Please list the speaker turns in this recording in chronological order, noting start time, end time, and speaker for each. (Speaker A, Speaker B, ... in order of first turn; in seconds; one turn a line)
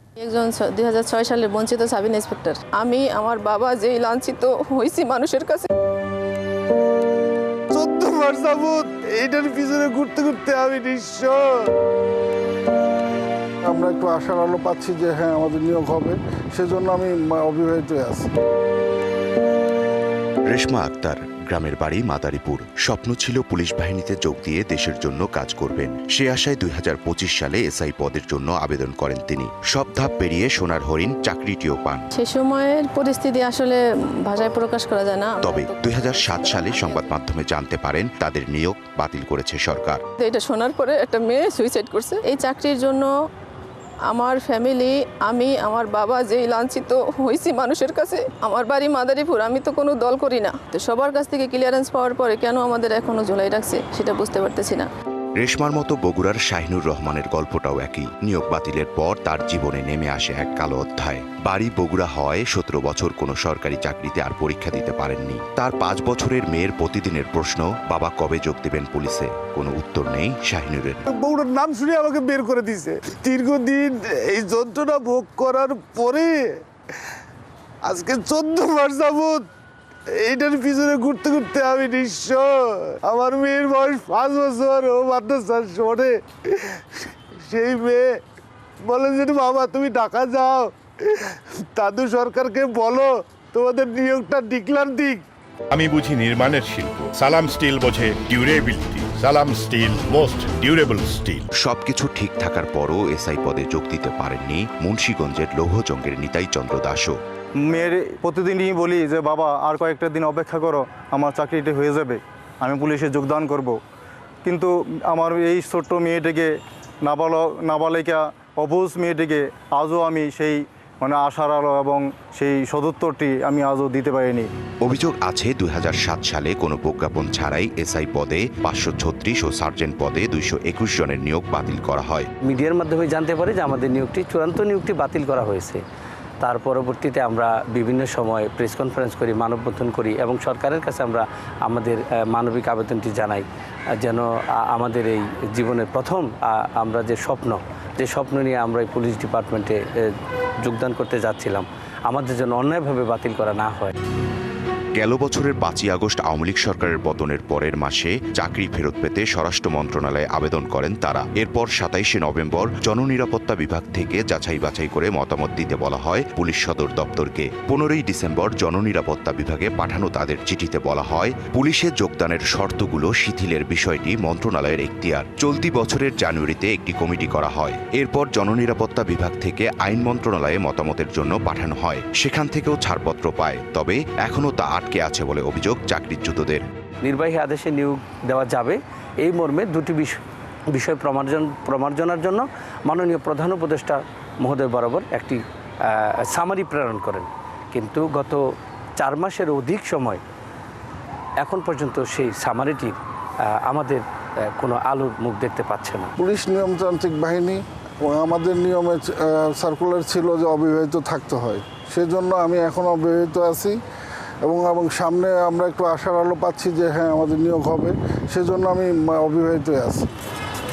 Speaker A: 0.2-5.7
Speaker B: 7.7-11.7
Speaker C: 13.6-18.3
Speaker D: 20.5-32.1
Speaker A: 32.1-37.2
Speaker D: 35.4-40.0
Speaker A: 40.2-43.1
Speaker A: 44.1-54.9
Speaker D: 55.4-71.0
Speaker B: 71.1-76.6
Speaker B: 77.8-79.5
Speaker B: 80.1-88.2
Speaker B: 88.8-95.2
Speaker E: 95.7-101.5
Speaker D: 101.5-107.2
Speaker F: 107.6-113.8
Speaker F: 114.4-116.5
Speaker F: 117.0-124.5
Speaker D: 124.8-132.3
Speaker G: 132.4-135.8
Speaker G: 136.4-143.4
Speaker G: 144.0-149.8
Speaker G: 150.6-153.9
Speaker D: 155.0-186.6
Speaker G: 187.0-190.2
Speaker G: 190.7-195.4
Speaker G: 195.9-198.4
Speaker G: 199.0-200.2
Speaker G: 201.4-202.9
Speaker G: 203.7-206.1
Speaker C: 206.2-213.8
Speaker C: 214.4-220.1